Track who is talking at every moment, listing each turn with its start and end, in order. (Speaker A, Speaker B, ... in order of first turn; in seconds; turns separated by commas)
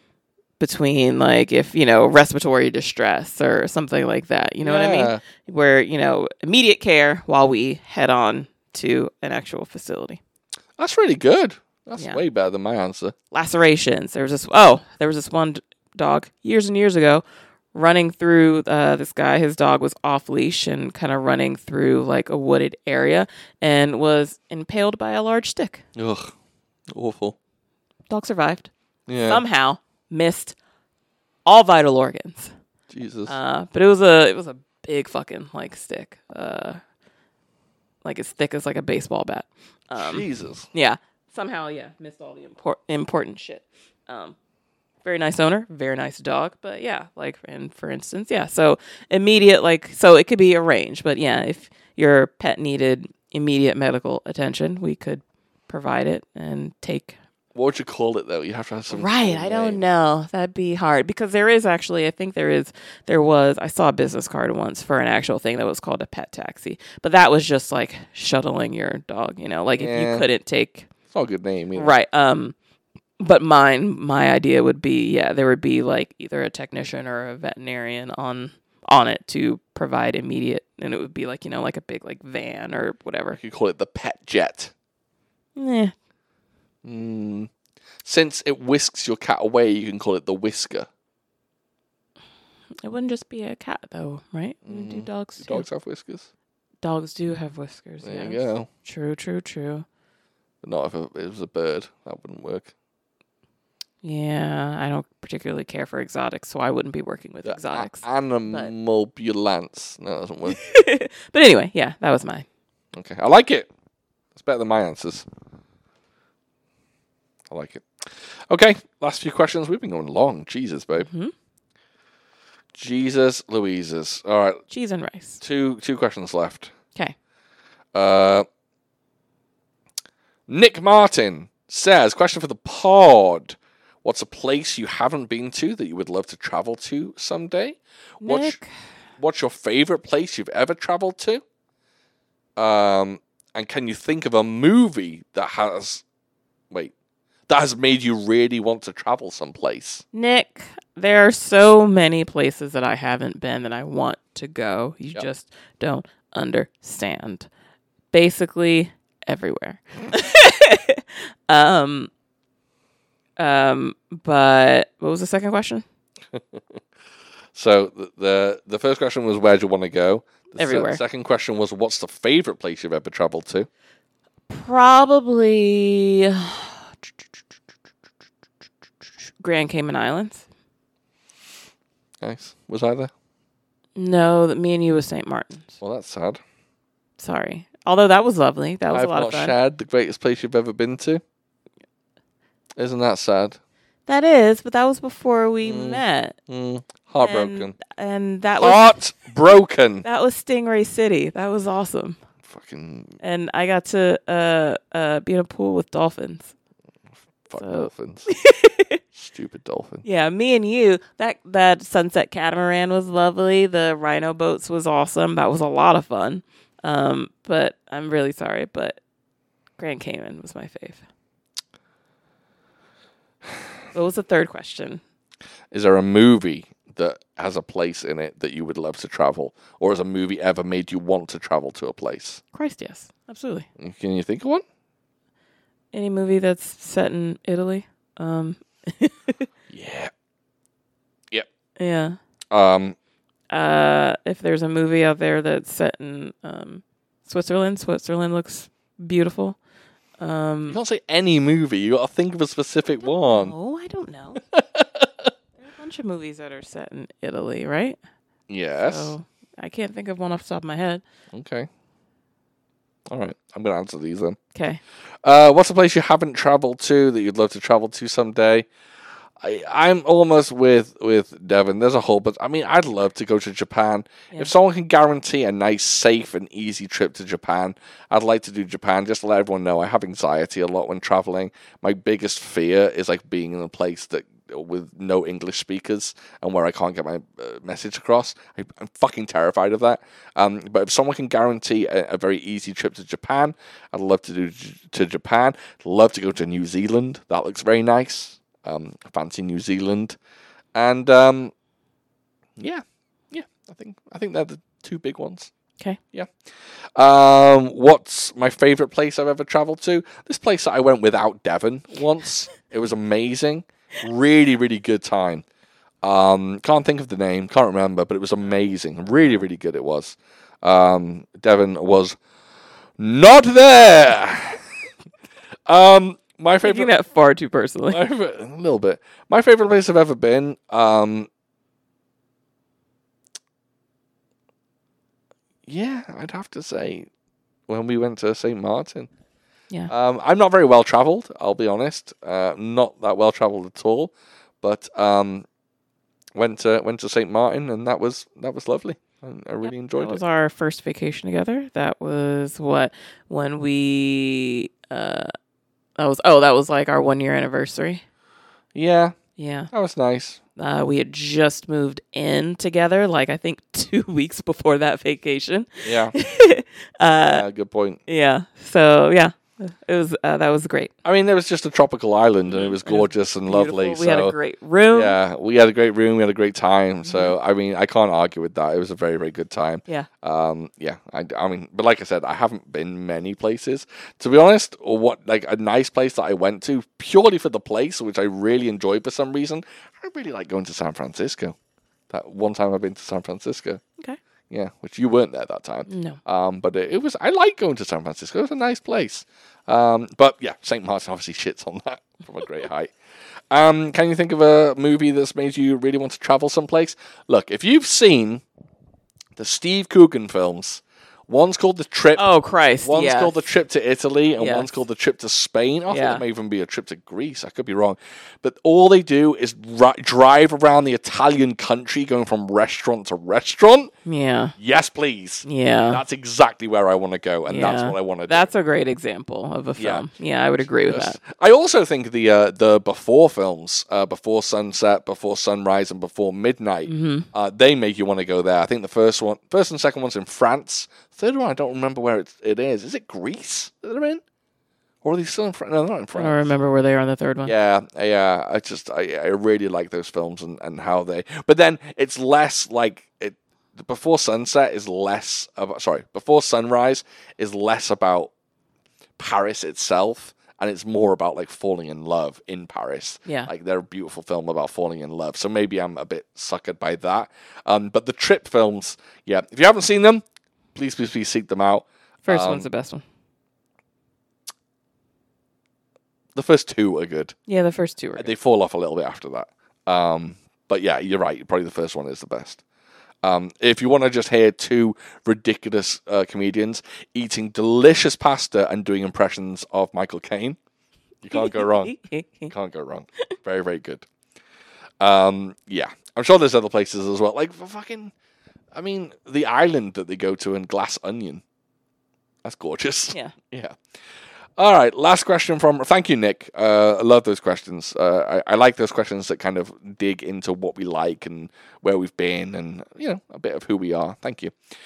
Speaker A: 0.6-10.2, Speaker B: 4.6-5.2, Speaker B: 10.8-13.2, Speaker A: 12.0-12.2, Speaker A: 13.3-25.9, Speaker B: 26.0-26.4, Speaker B: 26.9-27.4, Speaker A: 28.1-28.7, Speaker B: 29.1-29.4, Speaker A: 29.3-30.6, Speaker A: 31.5-32.5, Speaker B: 32.9-33.3, Speaker A: 33.3-36.8, Speaker A: 38.0-44.4, Speaker B: 40.0-40.7, Speaker A: 45.0-57.2, Speaker B: 57.5-59.8, Speaker A: 58.9-70.9, Speaker B: 69.8-70.3, Speaker B: 71.1-71.9, Speaker A: 71.8-72.5, Speaker A: 73.2-83.4, Speaker B: 83.3-84.7, Speaker A: 85.6-85.9, Speaker B: 86.8-87.5, Speaker B: 88.0-90.9, Speaker A: 92.8-95.7, Speaker B: 94.7-96.3, Speaker A: 96.8-99.9, Speaker B: 98.0-98.7, Speaker B: 100.6-102.7, Speaker A: 104.0-108.7, Speaker B: 107.4-110.6, Speaker A: 110.5-112.5, Speaker B: 112.9-113.7, Speaker B: 114.3-115.2, Speaker B: 117.5-121.1, Speaker A: 121.0-121.3, Speaker B: 122.7-124.6, Speaker A: 124.7-125.4, Speaker B: 125.4-126.7, Speaker B: 127.9-128.5, Speaker B: 130.5-138.6, Speaker A: 138.2-138.7, Speaker B: 139.2-141.4, Speaker B: 142.6-146.0, Speaker B: 147.5-150.0, Speaker A: 150.1-157.5, Speaker A: 158.1-162.1, Speaker A: 163.4-165.8, Speaker B: 166.3-166.8, Speaker B: 167.5-173.7, Speaker A: 170.6-171.0, Speaker A: 174.5-176.7, Speaker A: 179.4-180.4, Speaker B: 182.2-183.1, Speaker A: 184.0-185.8, Speaker B: 185.8-186.4, Speaker A: 187.2-189.6, Speaker B: 188.9-191.2, Speaker B: 192.8-193.6, Speaker A: 194.1-196.4, Speaker B: 195.6-197.8, Speaker A: 197.2-199.0, Speaker B: 198.6-200.1, Speaker A: 200.0-202.2, Speaker B: 202.4-203.2, Speaker A: 203.2-206.5, Speaker B: 207.5-208.3, Speaker A: 207.6-209.0, Speaker B: 209.1-210.0, Speaker A: 210.0-219.0, Speaker A: 219.8-221.0, Speaker A: 223.9-225.0, Speaker B: 225.7-232.4, Speaker A: 232.5-233.7, Speaker B: 233.8-234.6, Speaker A: 235.9-239.5, Speaker B: 239.7-240.1, Speaker A: 241.8-242.2, Speaker B: 242.5-243.0, Speaker A: 243.5-249.6, Speaker A: 250.2-250.8, Speaker B: 250.7-253.5, Speaker A: 253.2-254.4, Speaker B: 254.5-255.3, Speaker A: 255.6-258.0, Speaker B: 258.5-259.1, Speaker A: 258.8-261.0, Speaker B: 261.3-261.7, Speaker B: 263.1-264.4, Speaker A: 264.6-264.8, Speaker B: 265.2-268.7, Speaker B: 269.4-300.2, Speaker B: 300.8-301.5, Speaker B: 302.6-305.5, Speaker B: 307.0-315.4, Speaker B: 316.0-322.2, Speaker B: 323.0-324.6, Speaker B: 325.7-326.9, Speaker A: 326.6-328.0, Speaker B: 327.9-331.3, Speaker B: 335.7-337.1, Speaker B: 337.7-339.1, Speaker B: 339.9-345.5, Speaker B: 346.4-350.2, Speaker A: 349.9-355.3, Speaker A: 356.0-358.0, Speaker B: 358.8-359.2, Speaker A: 359.4-359.7, Speaker B: 359.7-360.4, Speaker A: 360.6-367.5, Speaker B: 365.8-366.1, Speaker B: 367.3-368.0, Speaker A: 368.1-370.9, Speaker B: 371.1-374.4, Speaker A: 372.5-375.2, Speaker B: 374.9-391.6, Speaker A: 377.1-377.4, Speaker B: 392.1-393.8, Speaker B: 394.5-402.9, Speaker A: 395.9-396.2, Speaker B: 403.5-408.4, Speaker B: 409.4-412.3, Speaker A: 412.2-413.4, Speaker B: 412.8-423.9, Speaker A: 414.4-414.8, Speaker A: 415.9-416.2, Speaker A: 424.1-424.6, Speaker B: 424.6-428.5, Speaker A: 425.4-426.0, Speaker A: 427.5-431.2, Speaker B: 429.8-430.1, Speaker B: 430.9-444.2, Speaker A: 436.9-437.3, Speaker B: 445.0-446.5, Speaker A: 446.1-447.5, Speaker B: 447.5-458.3, Speaker B: 459.2-470.2, Speaker B: 470.7-472.7, Speaker A: 472.2-473.0, Speaker B: 476.4-477.4, Speaker A: 477.5-478.3, Speaker B: 478.2-482.6, Speaker B: 483.2-490.6, Speaker B: 491.2-492.0, Speaker A: 491.3-492.5, Speaker B: 492.5-494.1, Speaker B: 495.0-498.1, Speaker B: 498.7-501.4, Speaker B: 502.4-503.8, Speaker A: 503.1-503.4, Speaker B: 504.6-514.5